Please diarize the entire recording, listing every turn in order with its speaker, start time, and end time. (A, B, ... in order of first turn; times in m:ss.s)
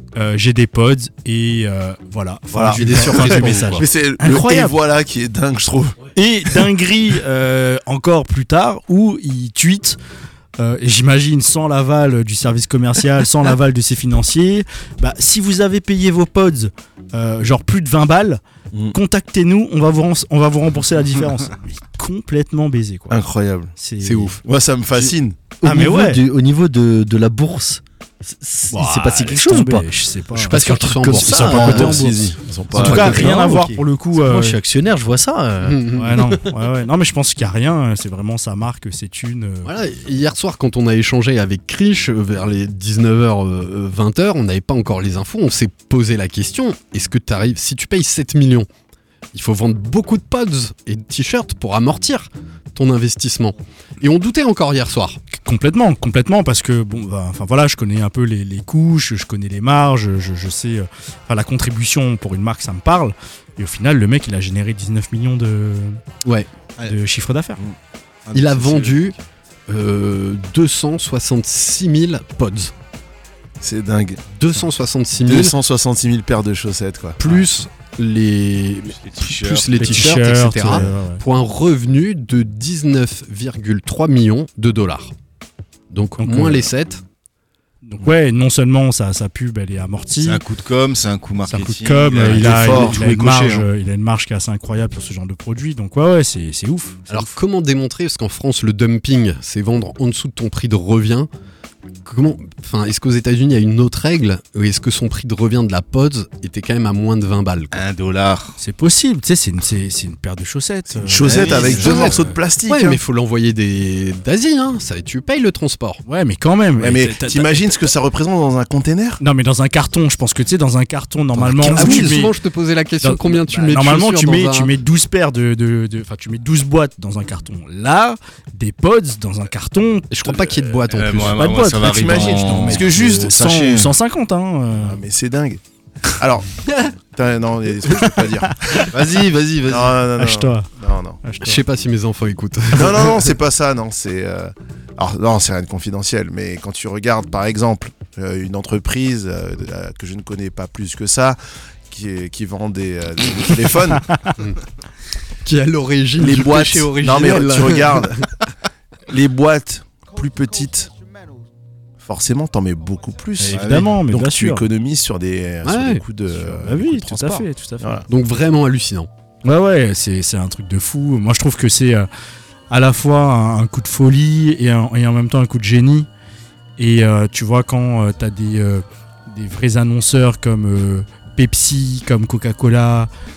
0:00.2-0:04.7 A
0:02.5-0:06.0 B
0:02.7-0:03.8 C
0:06.1-0:10.0 A
0:10.6-0:18.4 A
0:18.9-0:23.2 A
0:23.1-0:23.7 B
0:23.8-0:24.4 A
0:24.0-0:24.4 C
0:24.4-0:25.4 B
0:25.6-0:29.8 D
0:25.6-0:26.2 A
0:28.7-0:32.1 A
0:30.4-0:32.2 C
0:30.4-0:36.4 D
0:31.6-0:33.4 B
0:32.7-0:34.6 A
0:35.6-0:36.2 C
0:36.0-0:39.7 A
0:39.6-0:48.7 C
0:49.3-0:55.2 C
0:55.4-1:06.0 A
1:06.8-1:07.6 A
1:07.6-1:09.2 E
1:08.3-1:09.1 C
1:09.7-1:12.7 C
1:13.6-1:14.2 B
1:14.3-1:15.5 C
1:15.2-1:17.2 B
1:17.2-1:25.1 C
1:19.0-1:20.2 E
1:19.7-1:21.2 A
1:25.9-1:27.0 C
1:26.2-1:26.7 A
1:27.8-1:30.4 A
1:30.2-1:33.6 E
1:31.4-1:37.3 A
1:32.1-1:33.1 B
1:37.1-1:41.3 C
1:42.0-1:47.8 C
1:47.7-1:48.6 E
1:48.6-1:51.9 A
1:51.0-1:53.0 B
1:51.1-1:52.4 E
1:51.4-1:56.0 C
1:56.1-1:57.7 A
1:56.8-1:59.2 B
1:59.2-2:02.3 A
2:01.4-2:04.7 C
2:03.0-2:10.1 A
2:10.1-2:11.4 C
2:10.9-2:13.9 E
2:11.2-2:15.0 A
2:11.8-2:13.4 B
2:14.7-2:15.6 B
2:16.2-2:18.8 B
2:18.9-2:19.9 E
2:19.7-2:21.2 B
2:20.2-2:20.7 A
2:21.2-2:21.6 A
2:21.4-2:23.3 C
2:22.7-2:31.4 B
2:31.9-2:34.0 B
2:35.4-2:38.1 C
2:36.2-2:38.2 B
2:39.1-2:40.9 B
2:42.0-2:48.0 B
2:43.4-2:44.6 A
2:43.4-2:44.0 E
2:45.6-2:46.0 C
2:46.3-2:48.0 A
2:48.1-2:49.1 C
2:49.4-2:52.1 A
2:52.7-2:56.1 A
2:56.8-3:03.1 A